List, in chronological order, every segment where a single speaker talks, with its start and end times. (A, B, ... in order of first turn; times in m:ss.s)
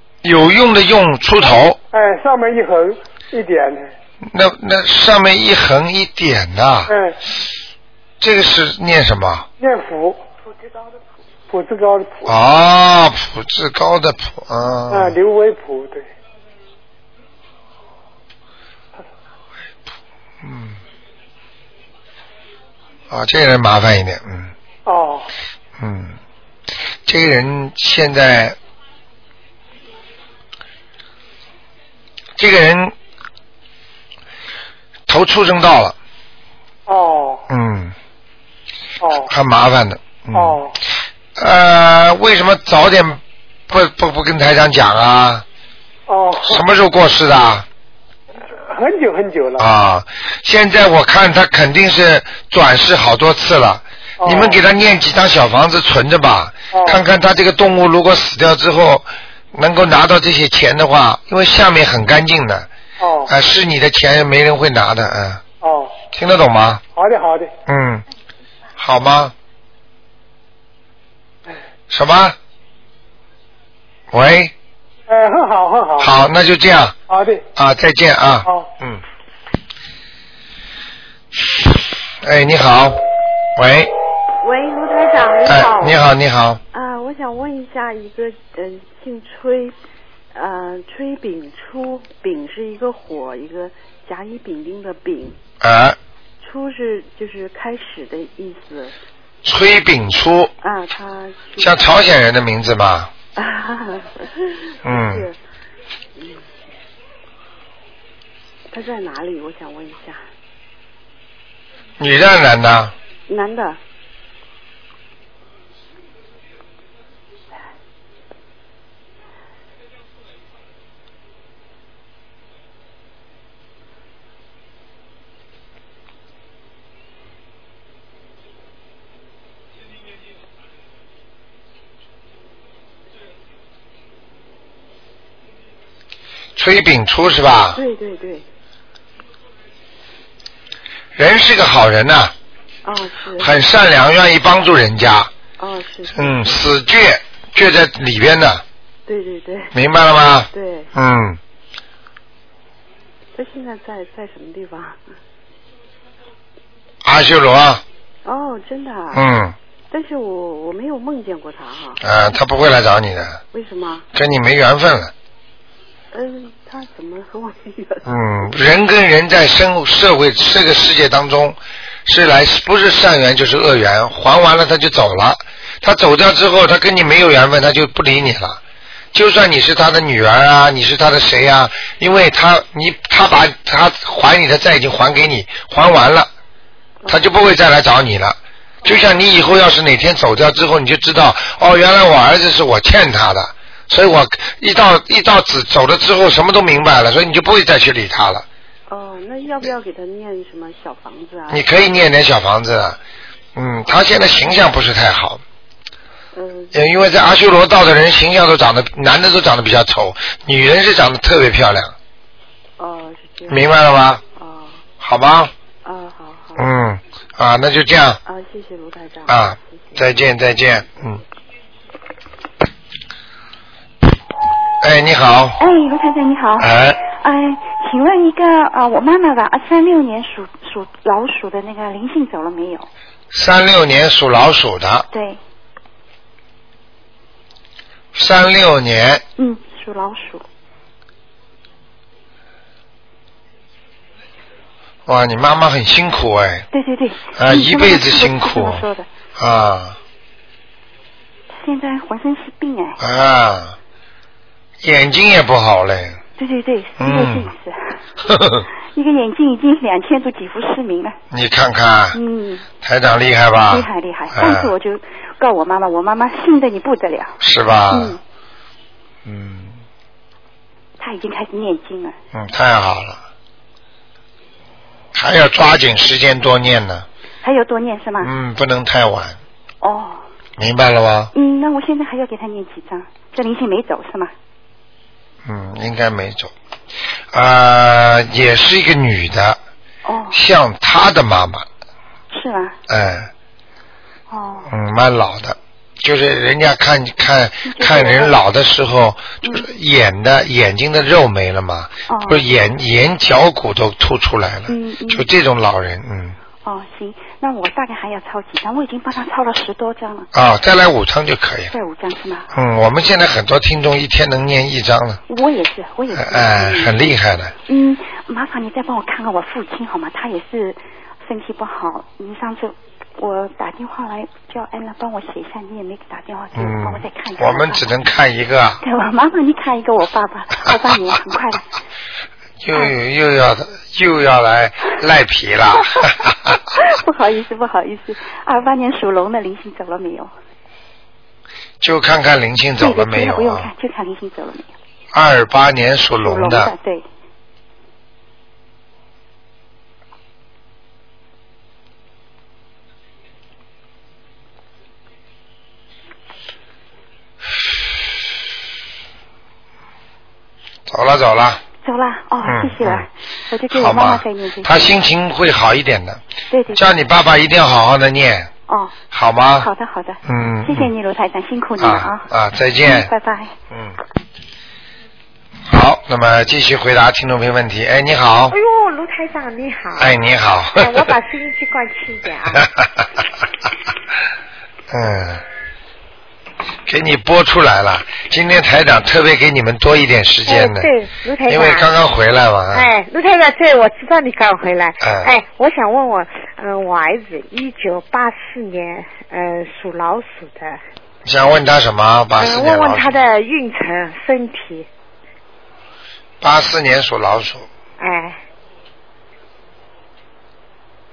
0:00.2-0:01.8 A
0:01.9-0:03.9 B
0:04.2-0:06.9 A
0:06.9-0:07.2 B
0:08.2-0:09.5 A
0:09.6-0:10.2 B
0:11.5-0:12.3 B
0:12.3-0:15.2 A
0:14.9-0:16.1 B
0:20.4-0:20.8 A
0:23.1-0:24.5 A
0:24.9-0:25.3 B
0:25.8-0:26.2 A
0:27.1-0:28.6 A
0:32.4-0:33.0 A
0:35.1-0:36.0 A
0:36.9-0:37.4 B
0:37.5-0:38.0 A
0:39.0-0:39.3 B
0:39.3-0:40.6 A
0:40.3-0:40.8 B
0:41.4-0:45.4 A
0:46.1-0:46.6 B
0:46.4-0:47.7 A
0:48.7-0:49.7 B
0:49.6-1:02.7 A
0:54.2-0:54.6 B
0:56.7-0:57.0 B
1:03.0-1:03.3 B
1:03.3-1:05.4 A
1:05.6-1:06.0 B
1:06.1-1:06.8 A
1:07.0-1:07.5 B
1:07.7-1:08.1 A
1:08.8-1:09.3 A
1:11.9-1:12.4 A
1:14.1-1:14.5 A
1:15.1-1:16.1 B
1:16.0-1:17.0 A
1:17.1-1:17.4 B
1:17.6-1:19.0 A
1:22.2-1:23.0 A
1:23.6-1:23.9 A
1:24.4-1:26.0 C
1:25.4-1:26.6 A
1:26.7-1:29.8 D
1:30.3-1:35.4 D
1:35.6-1:36.0 A
1:36.4-1:39.0 D
1:39.4-1:40.5 A
1:40.6-1:41.8 D
1:41.6-1:43.1 A
1:43.4-1:45.4 D
1:44.8-1:45.3 A
1:48.7-1:50.2 D
1:52.0-1:52.9 A
1:53.3-1:53.8 D
2:16.6-2:17.8 A
2:17.8-2:18.5 D
2:21.2-2:22.3 A
2:22.8-2:23.6 D
2:23.4-2:25.3 A
2:25.6-2:26.6 D
2:26.1-2:28.6 A
2:29.1-2:29.8 D
2:29.7-2:31.4 A
2:30.5-2:30.9 D
2:33.4-2:35.0 D
2:37.0-2:37.8 A
2:38.2-2:39.2 D
2:39.1-2:39.6 A
2:39.9-2:42.0 D
2:42.0-2:43.4 A
2:43.5-2:44.1 D
2:44.1-2:45.1 A
2:46.1-2:48.1 D
2:48.0-2:58.6 A
2:59.1-3:06.3 A
3:07.0-3:07.3 D
3:07.1-3:18.5 A
3:18.9-3:21.7 D
3:21.5-3:23.0 A
3:23.6-3:25.4 A
3:26.3-3:26.8 D
3:26.7-3:31.9 A
3:32.8-3:33.7 D
3:33.5-3:34.2 A
3:34.3-3:34.9 D
3:35.0-3:35.5 A
3:35.8-3:36.7 D
3:36.6-3:38.2 A
3:38.2-3:40.2 D
3:39.3-3:41.2 A
3:44.8-3:45.6 A
3:45.6-3:52.9 E
3:46.6-3:47.0 A
3:53.3-3:55.1 A
3:55.1-3:55.4 E
3:58.1-3:59.2 A
3:59.4-4:00.4 E
4:05.1-4:06.7 A
4:06.7-4:09.1 E
4:07.4-4:08.9 A
4:09.4-4:10.0 A
4:11.5-4:13.0 E
4:13.0-4:13.8 A
4:14.8-4:16.2 A
4:16.4-4:18.0 E
4:17.0-4:17.5 A
4:18.3-4:18.6 A
4:18.9-4:21.2 E
4:21.3-4:22.2 A
4:22.1-4:22.7 E
4:22.8-4:24.7 A
4:23.7-4:27.4 E
4:27.4-4:28.2 A
4:27.9-4:28.2 E
4:29.2-4:29.8 A
4:31.0-4:32.2 E
4:32.3-4:33.2 A
4:35.1-4:37.0 A
4:37.4-4:38.3 E
4:38.2-4:39.4 A
4:39.8-4:40.2 E
4:40.6-4:41.3 A
4:41.3-4:44.3 E
4:45.4-4:46.5 A
4:47.3-4:49.6 A
4:50.0-4:50.4 E
4:50.3-4:51.7 A
4:52.3-4:52.8 E
4:52.9-4:53.3 A
4:54.3-4:54.7 E
4:54.7-5:06.4 A
4:57.6-4:58.3 E
5:02.1-5:02.5 E
5:04.7-5:05.3 E
5:06.6-5:10.3 E
5:10.3-5:11.7 A
5:11.7-5:12.5 E
5:12.5-5:15.2 A
5:15.3-5:17.2 E
5:16.1-5:17.5 A
5:17.7-5:27.9 E
5:26.6-5:28.8 A
5:28.8-5:31.6 E
5:30.7-5:31.2 A
5:32.6-5:36.6 A
5:36.7-5:40.3 E
5:41.8-5:43.7 A
5:42.8-5:44.7 E
5:45.1-5:46.7 A
5:46.2-5:47.0 E
6:00.9-6:01.6 A
6:01.8-6:05.0 E
6:02.4-6:03.1 A
6:03.7-6:06.2 A
6:06.5-6:06.8 E
6:06.7-6:08.5 A
6:08.7-6:09.0 E
6:09.1-6:09.7 A
6:09.6-6:12.3 E
6:10.3-6:10.9 A
6:11.8-6:13.1 A
6:12.8-6:13.5 E
6:15.7-6:18.6 A
6:18.5-6:20.2 C
6:20.0-6:21.1 A
6:20.8-6:22.7 C
6:24.9-6:25.4 A
6:26.9-6:30.9 A
6:30.5-6:31.9 C
6:31.5-6:32.9 A
6:32.7-6:40.8 C
6:35.0-6:35.3 A
6:41.2-6:43.2 A
6:42.4-6:44.9 C
6:46.4-6:47.7 A
6:48.0-6:48.4 C